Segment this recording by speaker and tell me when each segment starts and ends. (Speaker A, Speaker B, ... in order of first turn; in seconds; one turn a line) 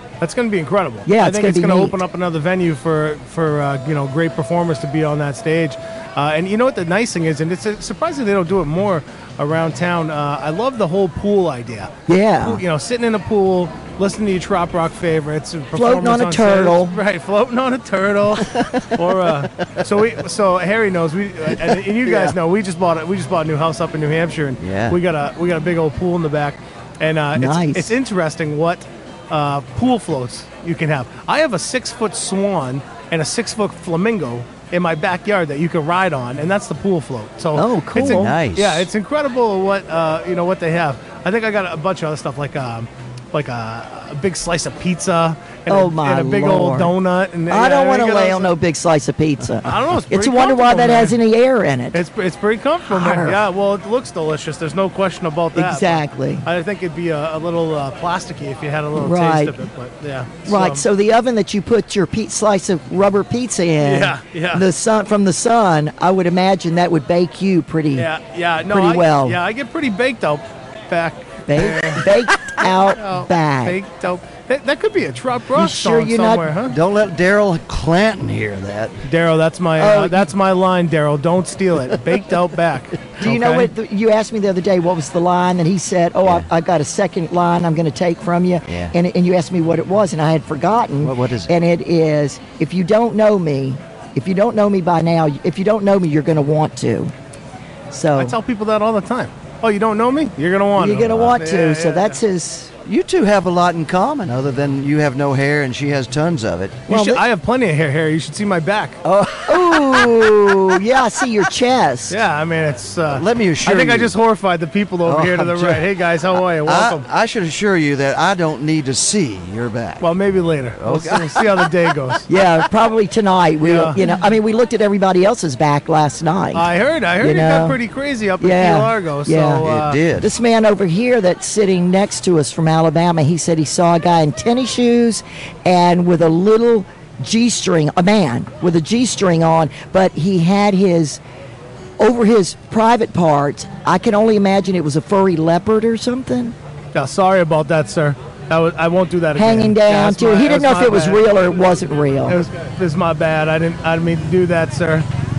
Speaker A: 0.2-48.5
Speaker B: 1.1-2.0
Speaker B: 12.1-12.6
Speaker B: 15.7-16.9
Speaker C: 24.6-25.0
Speaker B: 27.4-27.9
Speaker B: 37.5-38.3
Speaker C: 38.0-38.9
Speaker B: 45.7-46.9
Speaker B: 47.5-52.0
Speaker A: 49.6-51.2
Speaker A: 51.9-60.8
Speaker B: 52.9-53.4
Speaker B: 55.5-56.4
Speaker B: 58.9-59.5
Speaker B: 60.5-68.1
Speaker A: 63.8-64.6
Speaker A: 68.0-76.8
Speaker B: 68.7-69.4
Speaker B: 71.5-73.8
Speaker B: 75.5-76.5
Speaker C: 76.7-79.0
Speaker A: 79.0-83.7
Speaker B: 79.8-80.3
Speaker B: 83.2-97.1
Speaker C: 88.7-88.9
Speaker C: 91.0-91.5
Speaker B: 97.9-98.3
Speaker A: 98.2-102.2
Speaker B: 100.8-102.7
Speaker C: 101.0-101.3
Speaker C: 102.8-106.8
Speaker B: 106.9-107.2
Speaker A: 106.9-109.0
Speaker C: 109.0-110.1
Speaker B: 109.4-112.2
Speaker A: 112.1-117.0
Speaker C: 113.1-114.2
Speaker C: 115.0-115.9
Speaker C: 116.6-120.1
Speaker A: 120.0-122.3
Speaker C: 120.8-122.2
Speaker B: 122.3-126.7
Speaker A: 123.6-124.0
Speaker A: 126.5-130.0
Speaker B: 127.2-127.8
Speaker B: 128.4-129.6
Speaker C: 129.6-130.3
Speaker B: 130.2-141.2
Speaker B: 142.0-146.5
Speaker A: 146.9-151.2
Speaker B: 149.3-152.4
Speaker A: 152.3-155.1